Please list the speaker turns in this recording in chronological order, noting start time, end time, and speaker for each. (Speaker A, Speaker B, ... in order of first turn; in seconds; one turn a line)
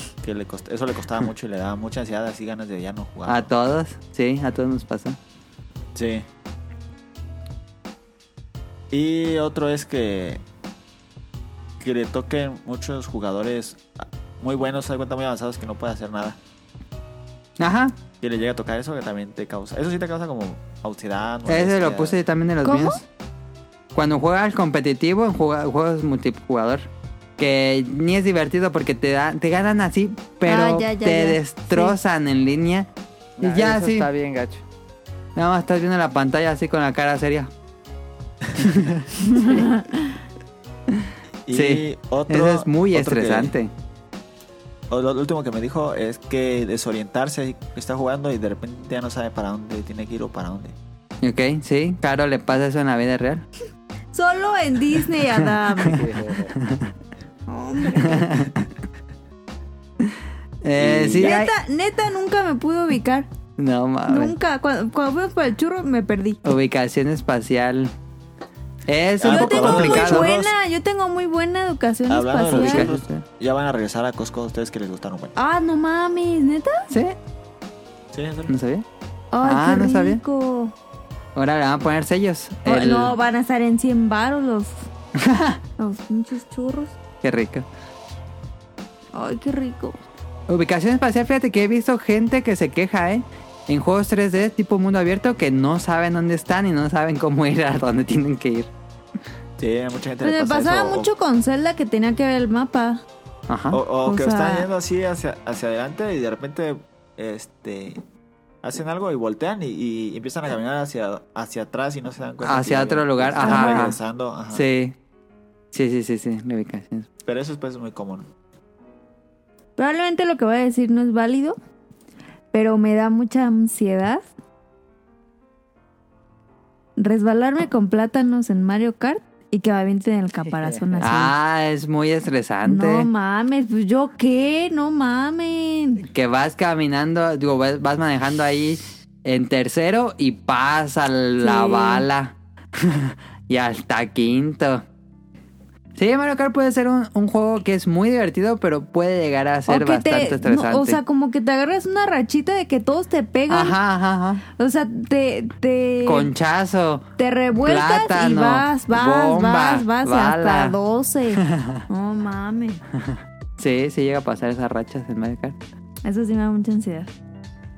Speaker A: 0.2-3.5
Speaker B: 3.3-5.2
Speaker A: 6.0-6.3
Speaker A: 8.9-10.4
Speaker A: 11.8-16.4
Speaker B: 17.6-18.0
Speaker A: 18.2-22.2
Speaker B: 21.5-23.0
Speaker C: 22.6-23.0
Speaker B: 23.9-32.9
Speaker C: 30.5-32.0
Speaker D: 33.4-34.6
Speaker B: 33.4-34.1
Speaker B: 35.4-37.5
Speaker B: 38.6-39.5
Speaker C: 39.3-40.1
Speaker A: 41.5-43.5
Speaker B: 41.5-43.7
Speaker A: 44.9-50.8
Speaker B: 51.2-53.4
Speaker C: 54.1-56.0
Speaker B: 55.4-55.9
Speaker D: 55.8-56.5
Speaker B: 56.5-56.9
Speaker C: 57.5-58.4
Speaker B: 58.0-58.7
Speaker B: 60.6-61.5
Speaker A: 60.8-61.4
Speaker C: 61.2-63.3
Speaker B: 63.6-64.3
Speaker C: 64.1-66.4
Speaker B: 66.4-67.9
Speaker B: 68.9-70.3
Speaker A: 69.2-70.5
Speaker C: 69.2-72.9
Speaker A: 72.1-75.3
Speaker B: 72.5-73.2
Speaker C: 75.4-76.9
Speaker B: 76.9-77.2
Speaker A: 78.1-78.5
Speaker B: 78.5-78.8
Speaker C: 79.3-80.7
Speaker B: 79.4-80.2
Speaker B: 81.3-83.1
Speaker C: 82.7-84.8
Speaker B: 85.2-85.6
Speaker C: 85.8-87.0
Speaker B: 87.2-87.7
Speaker C: 89.1-90.0
Speaker B: 90.5-98.7
Speaker A: 99.6-101.1
Speaker C: 100.2-103.0
Speaker B: 103.5-103.8
Speaker A: 103.7-108.0
Speaker C: 104.0-104.7
Speaker A: 108.6-114.7
Speaker B: 112.4-114.0
Speaker C: 113.4-113.8
Speaker B: 114.5-115.0
Speaker B: 115.7-117.1
Speaker A: 117.2-118.3
Speaker C: 119.8-121.6
Speaker C: 122.5-124.3
Speaker C: 127.0-131.3
Speaker D: 130.5-131.0
Speaker B: 131.0-133.1
Speaker C: 132.7-136.0
Speaker B: 136.0-144.8
Speaker C: 141.4-142.1
Speaker B: 146.0-151.0
Speaker C: 149.7-153.8
Speaker B: 153.5-154.4
Speaker C: 154.6-156.3
Speaker B: 156.0-157.1
Speaker C: 157.2-162.8
Speaker B: 157.6-160.8
Speaker B: 161.4-161.8
Speaker B: 163.0-165.6
Speaker C: 166.0-167.1